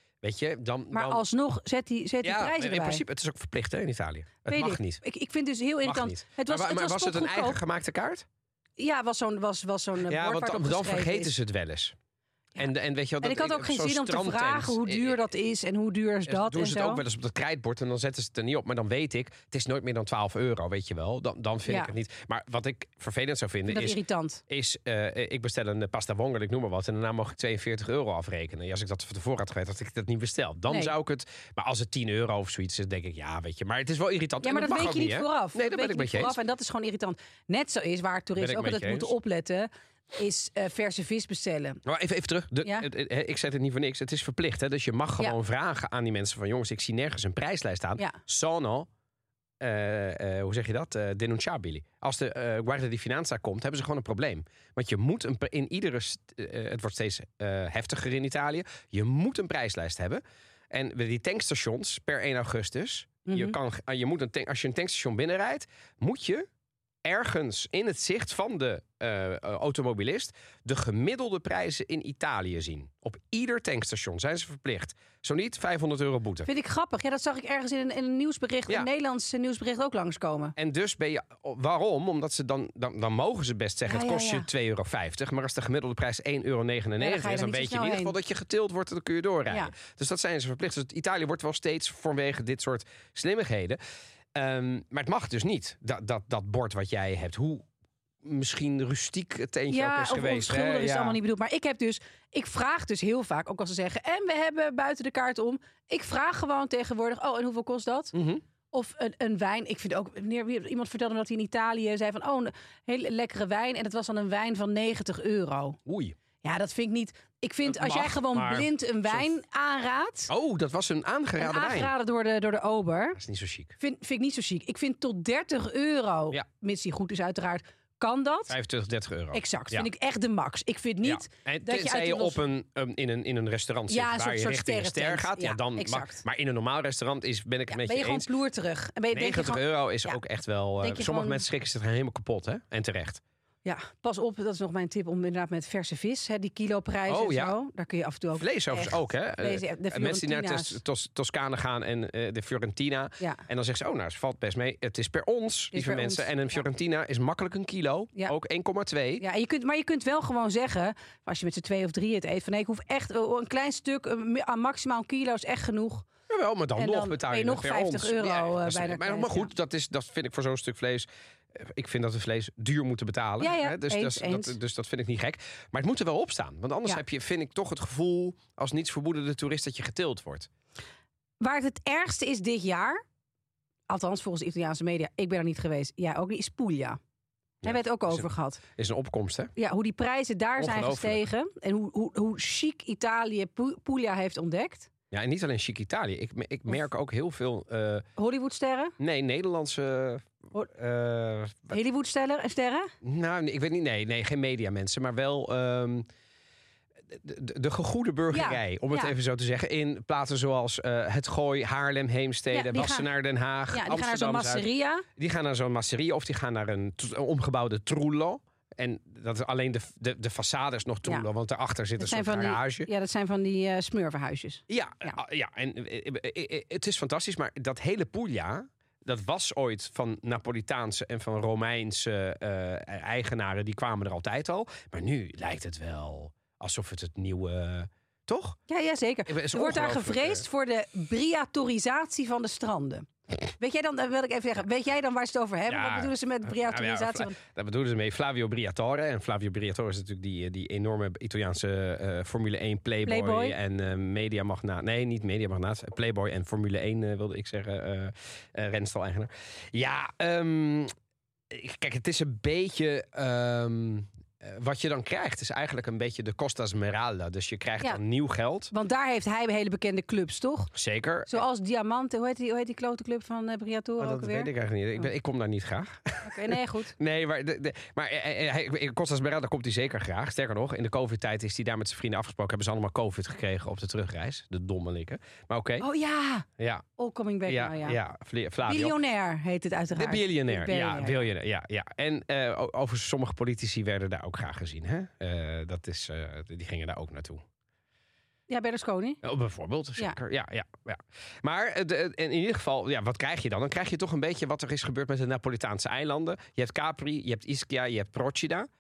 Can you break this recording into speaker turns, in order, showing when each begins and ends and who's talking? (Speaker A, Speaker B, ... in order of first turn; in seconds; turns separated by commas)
Speaker A: 0.2-1.2, Speaker B: 0.9-3.0, Speaker A: 2.2-5.0, Speaker B: 4.5-7.6, Speaker A: 5.8-8.3, Speaker B: 8.8-11.3, Speaker A: 10.1-11.9, Speaker A: 12.6-15.2, Speaker B: 13.2-17.0, Speaker A: 16.3-36.4, Speaker B: 21.7-21.9, Speaker B: 23.7-24.4, Speaker B: 30.7-30.9, Speaker B: 34.4-41.8, Speaker A: 38.4-39.1, Speaker A: 41.9-48.9, Speaker A: 49.6-66.5, Speaker B: 63.3-63.6, Speaker A: 67.0-76.5, Speaker B: 76.5-80.5, Speaker A: 80.6-93.8, Speaker B: 83.9-84.5, Speaker B: 87.0-88.1, Speaker A: 94.3-97.7, Speaker A: 98.2-101.2, Speaker B: 99.7-108.1, Speaker A: 108.1-108.4, Speaker B: 108.7-115.8, Speaker A: 115.9-116.2, Speaker B: 116.4-120.3, Speaker A: 117.7-119.2, Speaker A: 120.3-121.9, Speaker B: 121.4-123.2, Speaker A: 123.2-123.8, Speaker B: 123.8-128.6, Speaker A: 128.5-129.9, Speaker B: 129.3-132.4, Speaker A: 131.0-138.3, Speaker B: 133.9-136.2, Speaker B: 137.7-140.2, Speaker A: 139.1-143.2, Speaker B: 140.8-141.4, Speaker B: 143.7-150.8, Speaker A: 147.1-147.6, Speaker A: 148.4-159.2, Speaker B: 155.7-156.6, Speaker B: 159.2-166.1, Speaker A: 166.3-180.5, Speaker B: 166.8-169.5, Speaker B: 173.4-174.6, Speaker B: 181.4-183.0, Speaker B: 183.9-187.0, Speaker B: 187.6-188.6, Speaker A: 187.6-189.5, Speaker B: 189.6-194.9, Speaker A: 190.6-191.2, Speaker A: 195.1-198.1, Speaker B: 198.2-198.9, Speaker A: 199.0-201.8, Speaker B: 201.7-202.9, Speaker A: 203.0-206.1, Speaker A: 207.1-222.9, Speaker B: 208.3-209.2, Speaker B: 212.5-213.1, Speaker B: 213.7-215.1, Speaker B: 222.0-225.2, Speaker A: 224.7-238.6, Speaker B: 238.7-247.4, Speaker A: 239.3-240.4, Speaker A: 245.7-260.9, Speaker B: 253.1-253.6, Speaker A: 261.5-268.7, Speaker B: 268.7-270.7, Speaker A: 270.7-271.4, Speaker B: 271.3-275.1, Speaker A: 274.0-285.9, Speaker B: 276.2-277.0, Speaker B: 285.8-288.0, Speaker A: 286.6-286.9, Speaker A: 287.5-289.0, Speaker B: 288.6-291.2, Speaker A: 289.9-297.4, Speaker B: 298.5-299.2, Speaker A: 299.2-308.7